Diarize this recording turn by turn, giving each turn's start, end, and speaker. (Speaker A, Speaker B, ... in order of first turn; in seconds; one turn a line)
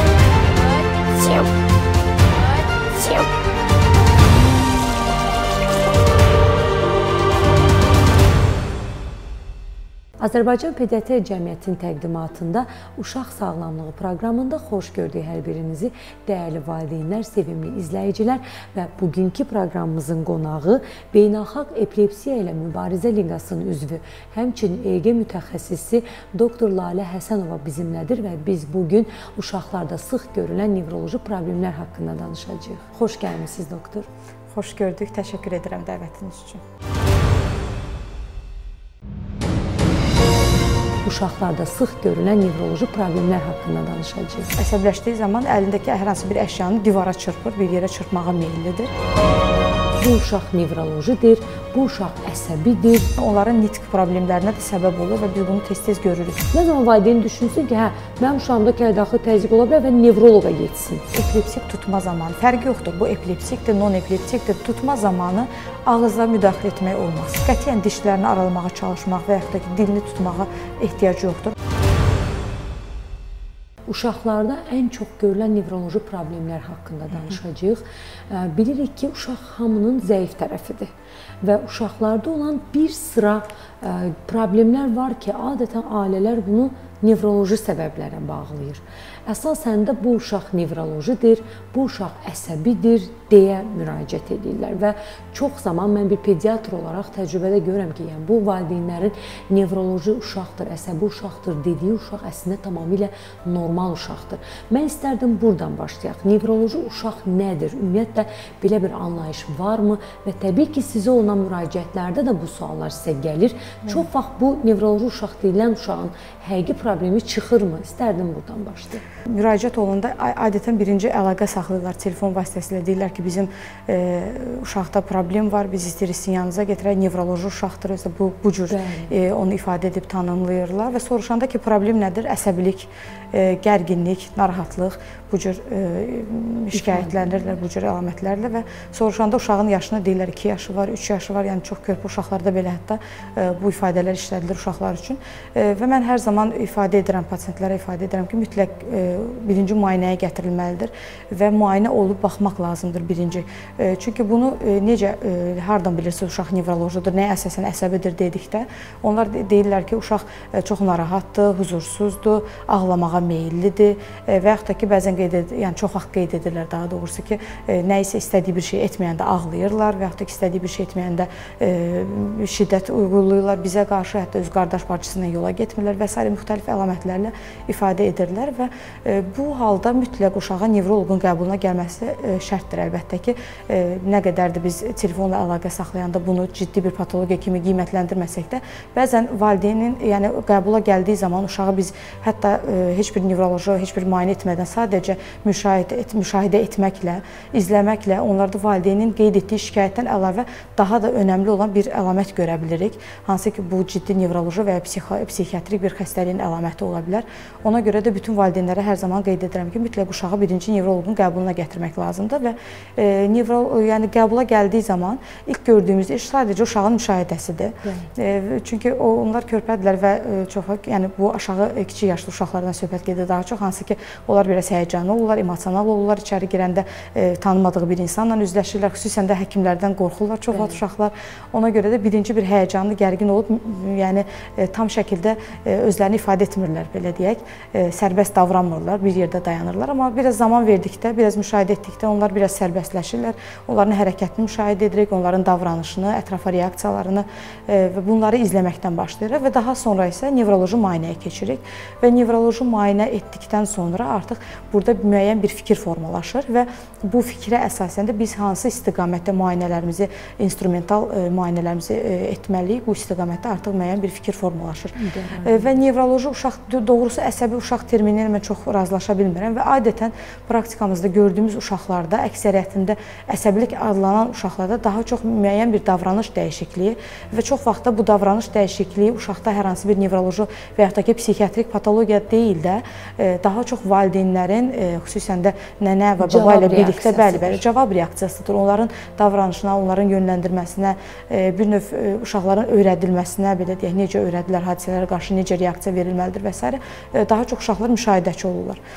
Speaker A: 10.2-34.1
Speaker B: 34.5-36.6
Speaker A: 41.0-44.5
Speaker B: 44.6-48.9
Speaker A: 50.0-53.1
Speaker B: 53.2-56.5
Speaker A: 56.5-61.0
Speaker B: 61.1-71.6
Speaker A: 73.9-80.9
Speaker B: 77.1-77.4
Speaker A: 81.4-119.0
Speaker B: 119.2-298.8
Speaker A: 128.7-129.2
Speaker A: 136.7-137.3
Speaker A: 217.8-218.1
Speaker A: 230.5-230.8
Speaker A: 265.0-265.7
Speaker A: 286.2-287.6